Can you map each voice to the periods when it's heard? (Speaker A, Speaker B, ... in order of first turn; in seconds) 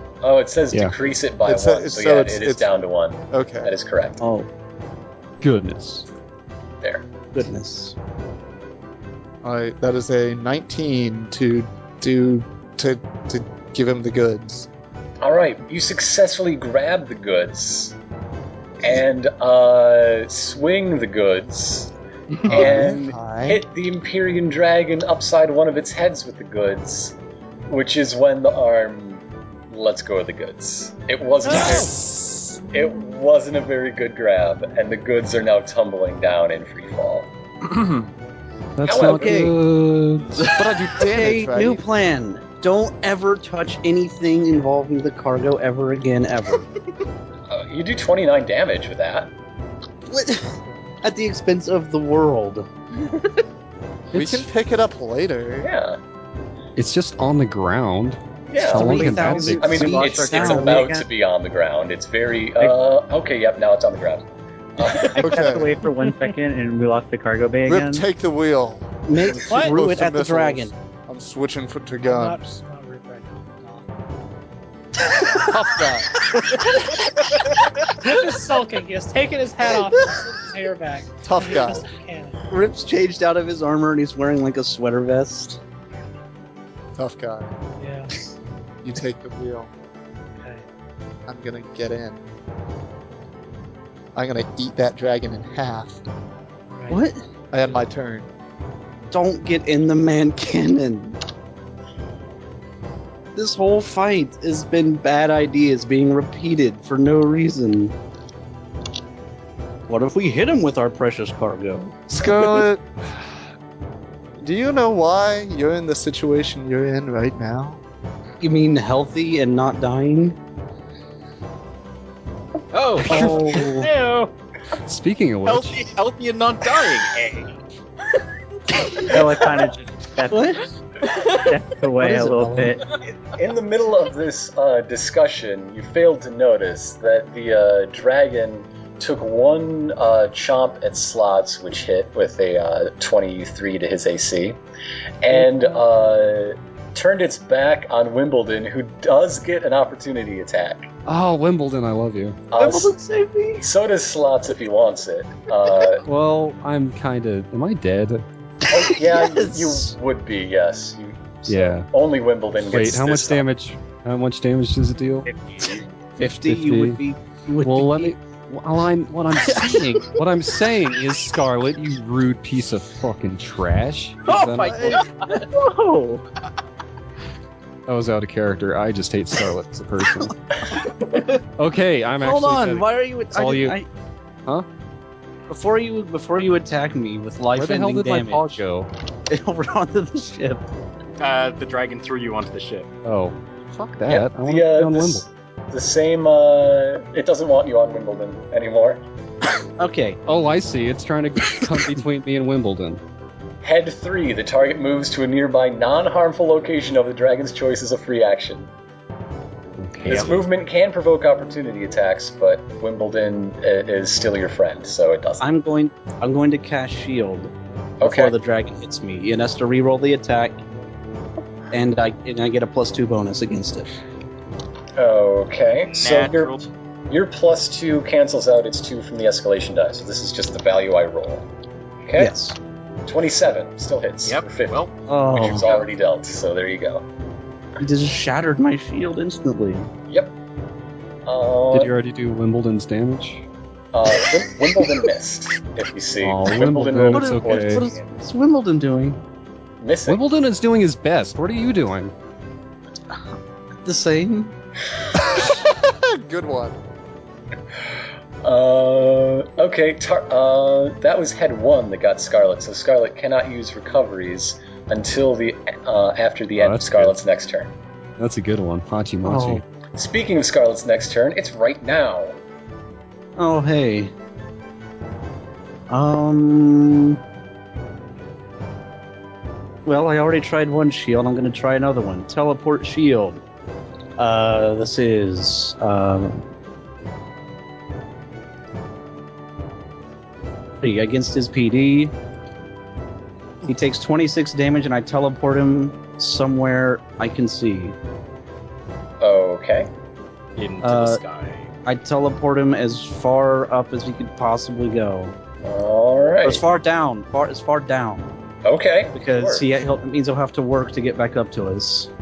Speaker A: 0.2-4.2, 6.8-7.1, 15.2-17.9, 18.8-21.9, 22.5-27.1, 27.7-31.9, 32.7-37.3, 38.8-39.5, 47.5-49.3, 55.6-56.0, 58.5-64.2, 64.8-65.2, 133.1-144.6, 145.2-150.9, 152.5-152.9, 153.6-156.0, 158.7-163.4, 194.1-199.0, 203.6-208.7, 210.0-215.4, 218.0-218.3, 224.9-226.6, 227.1-231.4, 232.0-232.3, 233.1-237.0, 241.2-241.9, 243.9-247.8, 249.8-250.2, 258.4-267.7, 269.9-272.4, 299.2-299.9, 305.6-306.7, 308.6-309.7
Speaker B: 1.4-2.7, 3.3-3.7, 9.4-14.7, 22.5-23.6, 31.5-32.6, 40.5-41.8, 54.1-55.7, 65.2-65.7, 67.7-72.6, 75.3-76.2, 81.2-81.9, 87.0-87.5, 88.8-89.7, 91.3-92.2, 94.1-96.0, 97.5-98.3, 112.1-112.8, 114.4-117.8, 255.2-256.8
Speaker C: 4.2-4.5, 7.3-8.0, 39.0-39.5, 40.4-46.7, 50.1-53.2, 54.1-54.5, 58.6-60.9, 69.1-70.7, 82.5-85.6, 96.9-97.2, 99.1-101.2, 103.3-107.9, 109.9-112.0, 118.4-120.4, 123.2-123.6, 130.3-130.7, 131.9-132.8, 152.6-153.7, 158.8-159.9, 166.2-168.2, 169.5-170.0, 174.3-176.2, 182.2-183.9, 185.5-188.6, 189.3-190.6, 199.8-200.2, 215.4-220.6, 221.7-223.9, 232.2-232.6, 235.1-235.7, 237.8-239.9, 247.1-249.2, 253.8-254.5, 269.2-269.6, 273.4-274.1, 275.9-277.2, 279.9-283.4, 284.2-286.5, 290.8-292.1, 293.6-297.9, 300.8-301.2, 301.8-305.3, 306.4-308.3, 309.1-312.1
Speaker D: 5.4-6.0, 38.8-40.5, 56.8-60.0, 123.0-123.8, 124.8-125.8, 151.1-152.4, 156.0-158.2, 161.5-161.9, 162.7-165.3, 166.2-167.0, 167.6-175.0, 177.9-180.3, 181.6-183.8, 187.5-188.9, 193.0-195.2, 200.2-203.0, 209.8-210.4, 241.7-243.4, 246.2-247.8, 250.1-252.1, 266.6-267.1, 268.2-269.6
Speaker E: 31.4-31.9, 69.5-69.8, 72.0-73.9, 78.0-82.4, 87.8-88.1, 90.4-90.6, 96.7-97.0, 123.1-123.8
Speaker F: 59.9-61.0, 65.1-68.0, 129.0-130.5, 131.4-132.8, 165.3-165.7
Speaker G: 122.7-124.3, 125.4-127.5, 191.2-192.9, 225.9-226.7, 234.2-234.9, 235.5-235.8, 300.6-301.7